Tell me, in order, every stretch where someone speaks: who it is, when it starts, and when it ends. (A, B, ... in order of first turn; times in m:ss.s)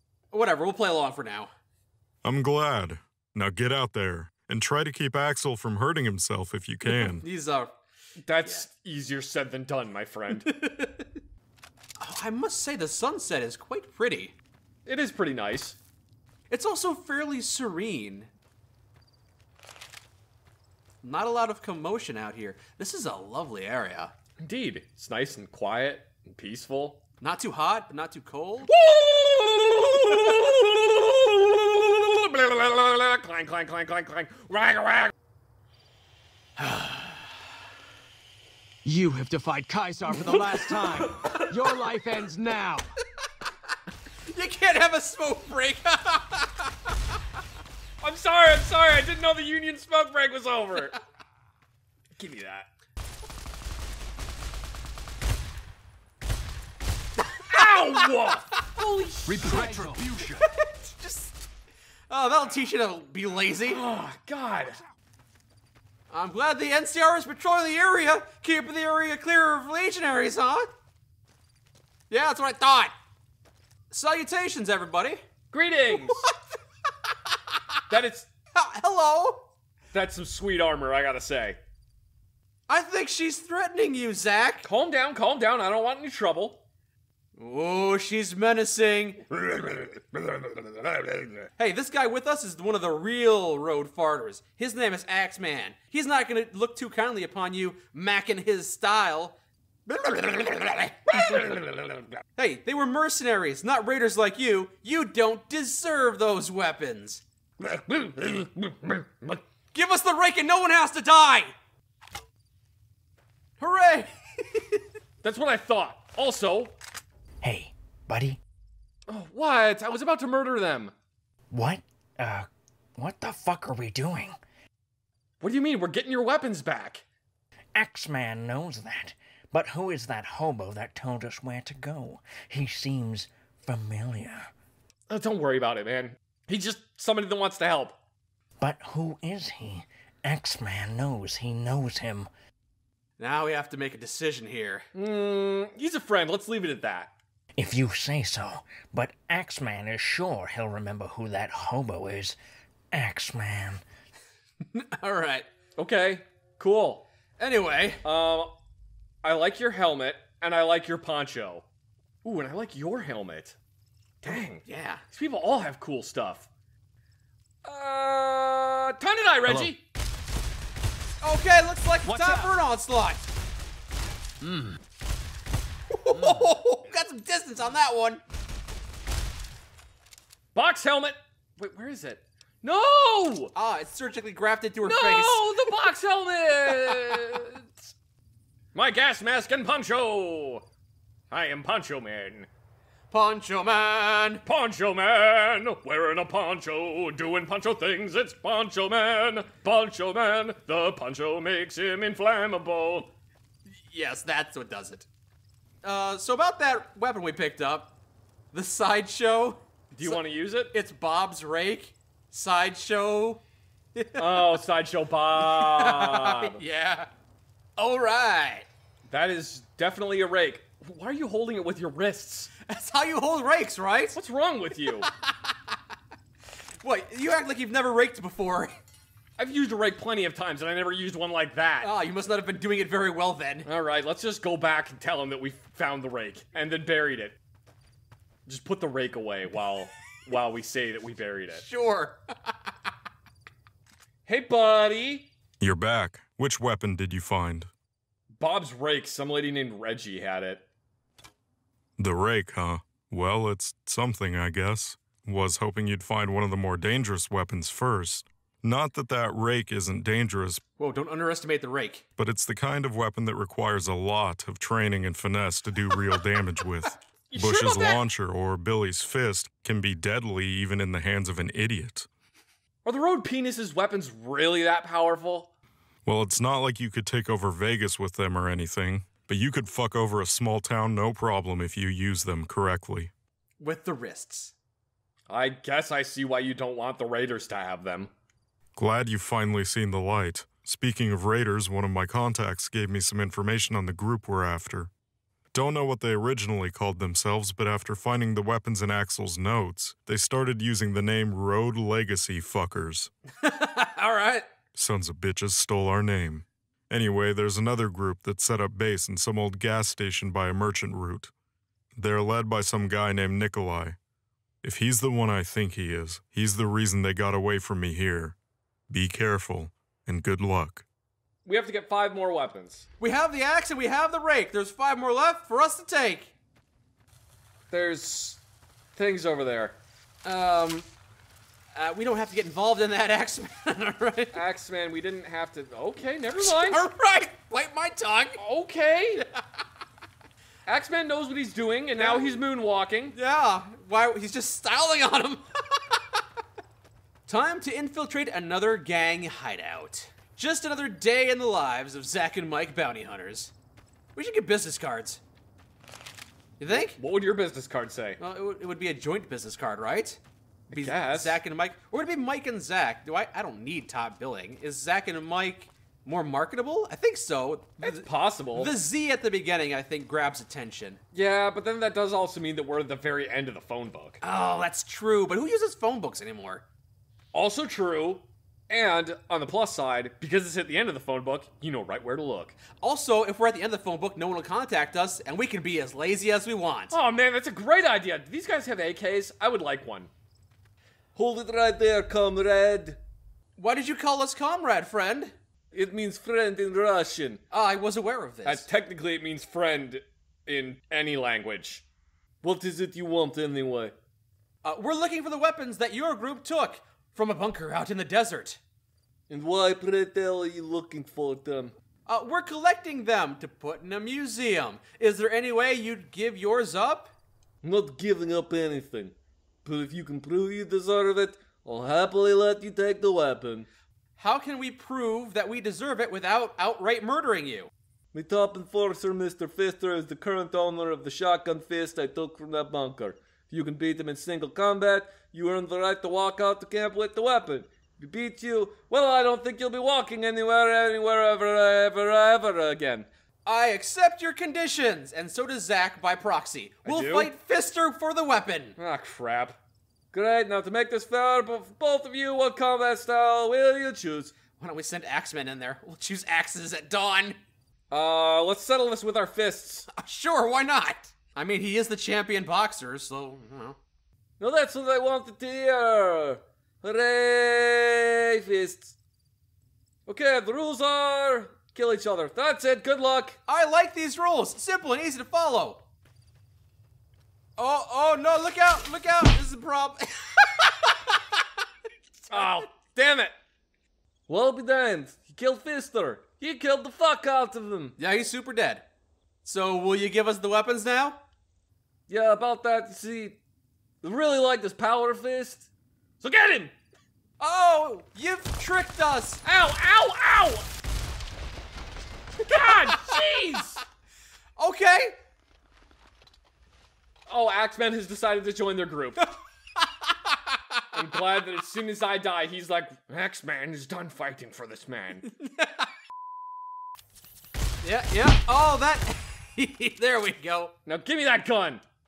0:00.3-0:01.5 A
0:02.2-0:07.2 B
0:06.8-0:07.8 A
0:08.2-0:10.5 C
0:10.5-0:11.1 A
0:12.0-0:14.4 A
0:14.8-0:15.8 C
0:16.5-0:18.3 A
0:21.0-0:24.1 A
0:24.4-0:27.0 C
0:27.2-0:28.7 A
0:28.7-0:35.1 C
0:36.6-0:37.2 A
0:38.8-0:42.8 D
0:44.3-0:46.9 A
0:48.0-0:51.0 C
0:52.2-0:52.7 C
0:57.5-1:00.0 C
0:59.3-1:00.4 D
1:00.4-1:01.4 A
1:02.1-1:03.8 A
1:03.6-1:04.8 C
1:06.1-1:10.7 A
1:12.1-1:12.9 A
1:13.9-1:15.2 A
1:15.5-1:16.3 C
1:15.9-1:16.3 A
1:17.9-1:18.3 C
1:18.5-1:19.5 A
1:19.9-1:21.6 C
1:22.7-1:24.7 A
1:24.6-1:26.6 C
1:27.4-1:30.2 A
1:31.6-1:47.2 A
1:47.6-1:49.4 C
1:49.7-1:51.5 A
1:53.6-1:54.8 A
1:55.2-1:56.7 C
1:57.4-1:58.4 E
1:59.1-2:00.9 C
2:01.5-2:04.4 E
2:05.4-2:07.0 C
2:07.7-2:14.5 E
2:15.1-2:18.0 C
2:18.6-2:22.3 E
2:23.2-2:24.9 A
2:24.9-2:27.1 C
2:27.6-2:32.4 E
2:32.9-2:33.8 E
2:34.7-2:35.5 A
2:35.8-2:37.0 C
2:37.4-2:38.0 A
2:38.0-2:38.5 C
2:39.2-2:41.6 C
2:42.2-2:43.6 C
2:44.2-2:46.5 C
2:44.6-2:45.0 A
2:47.6-2:49.8 C
2:51.2-2:53.3 A
2:52.2-2:52.4 C
2:54.4-2:54.8 D
2:55.9-2:58.2 A
2:56.2-2:56.4 C
3:00.5-3:03.5 C
3:03.5-3:05.4 A
3:04.8-3:07.9 C
3:08.7-3:10.6 C
3:11.3-3:12.5 C
3:13.1-3:14.4 A
3:14.4-3:23.1 C
3:23.7-3:25.1 A
3:25.8-3:27.9 A
3:28.5-3:33.4 A
3:29.9-3:30.7 C
3:33.9-3:34.5 A
3:34.2-3:36.6 C
3:35.4-3:37.1 A
3:37.8-3:38.7 A
3:39.1-3:42.5 C
3:42.6-3:44.2 A
3:44.1-3:45.1 C
3:45.2-3:45.6 A
3:46.8-3:48.8 A
3:49.4-3:51.9 C
3:51.8-3:53.7 A
3:53.6-3:57.4 C
3:58.4-4:01.6 C
4:01.5-4:02.5 A
4:04.2-4:05.3 C
4:05.6-4:07.7 B
4:08.4-4:10.6 C
4:12.0-4:20.6 B
4:20.8-4:22.0 A
4:22.2-4:32.1 B
4:27.3-4:28.0 C
4:32.8-4:35.5 C
4:36.0-4:43.1 B
4:43.6-4:44.5 A
4:45.3-4:48.1 C
4:48.7-4:54.9 B
4:55.5-5:03.1 B
5:03.4-5:04.5 A
5:04.7-5:11.3 B
5:12.0-5:14.0 B
5:14.6-5:18.4 B
5:18.9-5:20.9 B
5:21.4-5:22.9 C
5:23.0-5:26.3 A
5:27.7-5:28.4 C
5:29.0-5:29.8 C
5:30.2-5:30.9 A
5:31.7-5:34.4 A
5:34.3-5:36.8 C
5:36.4-5:38.4 A
5:38.4-5:39.2 C
5:40.6-5:43.1 C
5:42.0-5:42.4 A
5:43.1-5:46.2 A
5:47.3-5:53.5 A
5:54.1-5:55.2 A
5:56.6-5:57.0 A
5:56.7-5:58.2 C
5:58.2-6:00.2 A
6:00.7-6:01.4 C
6:00.7-6:11.0 A
6:07.8-6:08.8 C
6:11.1-6:14.2 C
6:14.2-6:16.6 A
6:17.3-6:22.6 C
6:22.8-6:26.9 A
6:26.9-6:30.1 C
6:31.1-6:33.0 C
6:33.6-6:35.4 A
6:35.7-6:37.4 C
6:37.5-6:38.7 A
6:38.4-6:41.8 C
6:42.4-6:43.9 C
6:44.6-6:48.6 A
6:49.3-6:51.7 C
6:52.1-6:57.1 A
6:57.6-6:59.1 C
6:59.6-7:03.7 C
7:04.2-7:07.7 A
7:08.1-7:23.1 C
7:23.4-7:28.8 A
7:26.8-7:27.3 C
7:28.8-7:29.6 C
7:30.1-7:34.3 C
7:34.6-7:37.4 A
7:37.9-7:39.9 C
7:39.9-7:43.8 A
7:44.4-7:48.9 C
7:50.1-7:53.4 C
7:53.5-7:55.8 A
7:57.6-8:01.4 A
8:02.3-8:03.4 C
8:02.3-8:02.6 A
8:04.3-8:08.0 C
8:08.0-8:08.8 A
8:09.4-8:11.2 A
8:12.1-8:13.4 C
8:14.0-8:15.7 C
8:16.2-8:16.7 C
8:17.4-8:19.4 A
8:19.4-8:20.7 C
8:22.4-8:23.8 C
8:22.6-8:23.0 A
8:24.6-8:25.2 A
8:27.3-8:29.2 C
8:29.8-8:30.8 A
8:30.9-8:35.3 C
8:35.4-8:35.9 A
8:37.8-8:40.7 A
8:40.9-8:41.8 C